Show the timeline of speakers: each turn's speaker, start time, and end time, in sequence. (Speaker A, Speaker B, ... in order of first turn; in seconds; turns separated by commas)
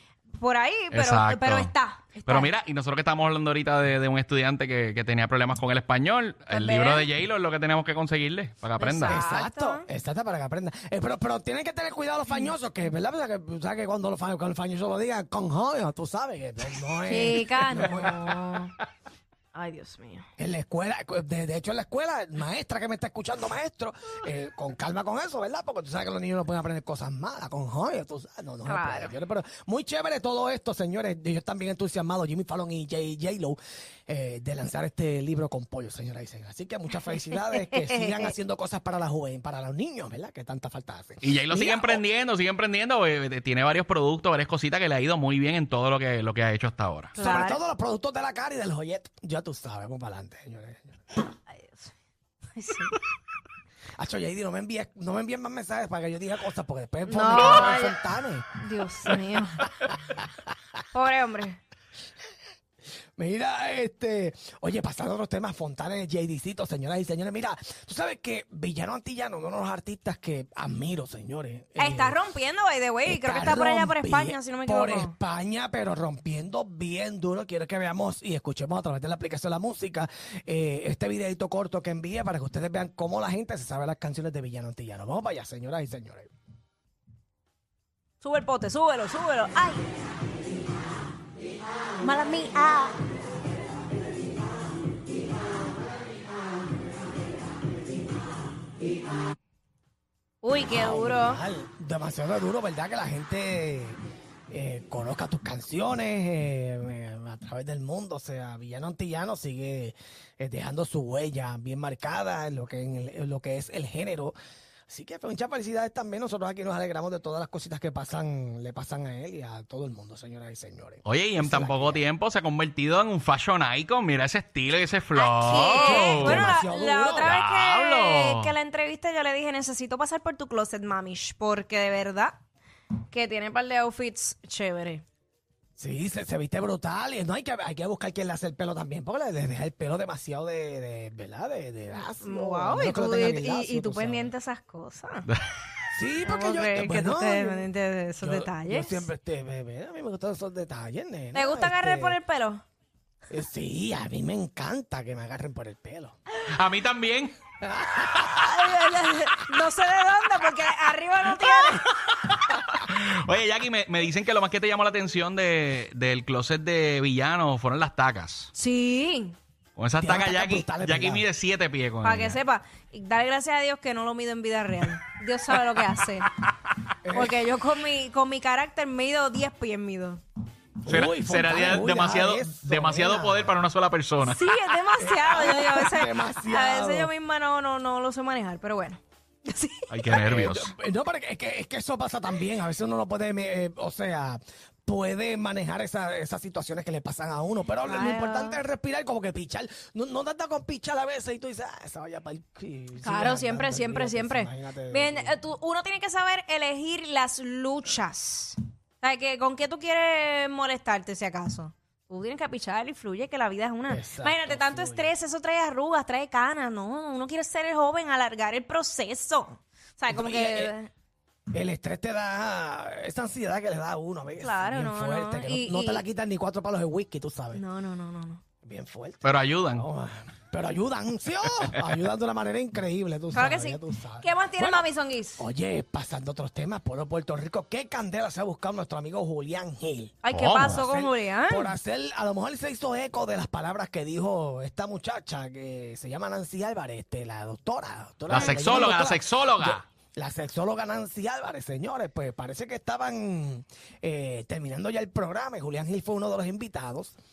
Speaker A: 0.4-2.5, Speaker B: 0.9-9.2, Speaker A: 6.5-7.1, Speaker A: 8.8-9.8, Speaker C: 9.1-18.3, Speaker A: 17.0-18.7, Speaker A: 19.5-20.3, Speaker C: 20.4-42.0, Speaker A: 28.7-29.2, Speaker A: 37.5-38.3, Speaker B: 41.2-47.2, Speaker A: 47.2-47.6, Speaker C: 47.2-50.8, Speaker A: 51.5-51.9, Speaker A: 52.6-52.9, Speaker C: 54.0-58.5, Speaker A: 57.1-58.0, Speaker A: 58.6-59.6, Speaker C: 59.6-60.3, Speaker A: 60.9-61.6, Speaker C: 63.2-72.2, Speaker A: 71.8-75.1, Speaker C: 73.0-86.3, Speaker A: 88.2-89.8, Speaker A: 92.0-93.0, Speaker A: 100.4-101.4, Speaker C: 100.7-114.3, Speaker C: 114.9-122.0, Speaker B: 121.1-126.5, Speaker A: 125.2-132.4, Speaker C: 125.5-127.3, Speaker B: 127.2-128.5, Speaker A: 133.1-135.0, Speaker C: 135.8-144.3, Speaker A: 142.0-145.3, Speaker C: 145.9-152.2, Speaker A: 146.2-149.1, Speaker A: 151.3-152.6, Speaker C: 153.3-156.2, Speaker B: 156.5-157.3, Speaker C: 157.8-158.3, Speaker A: 158.1-161.9, Speaker B: 161.4-168.5, Speaker A: 168.5-169.3, Speaker B: 169.8-172.4, Speaker C: 170.0-171.2, Speaker A: 172.0-176.3, Speaker C: 177.0-177.4, Speaker A: 177.1-180.2, Speaker C: 180.8-183.6, Speaker B: 180.9-184.4, Speaker A: 184.2-189.9, Speaker C: 184.9-187.1, Speaker B: 189.9-190.7, Speaker C: 190.1-205.4, Speaker A: 197.8-198.6, Speaker A: 203.0-220.9, Speaker C: 213.9-215.1, Speaker C: 220.1-220.7, Speaker C: 221.5-227.6, Speaker A: 224.4-226.1, Speaker A: 227.5-228.4, Speaker C: 228.6-240.2, Speaker B: 229.2-229.8, Speaker A: 233.3-235.4, Speaker A: 240.2-241.7, Speaker B: 240.3-240.8, Speaker C: 240.7-257.1, Speaker B: 248.3-249.8, Speaker A: 248.3-248.9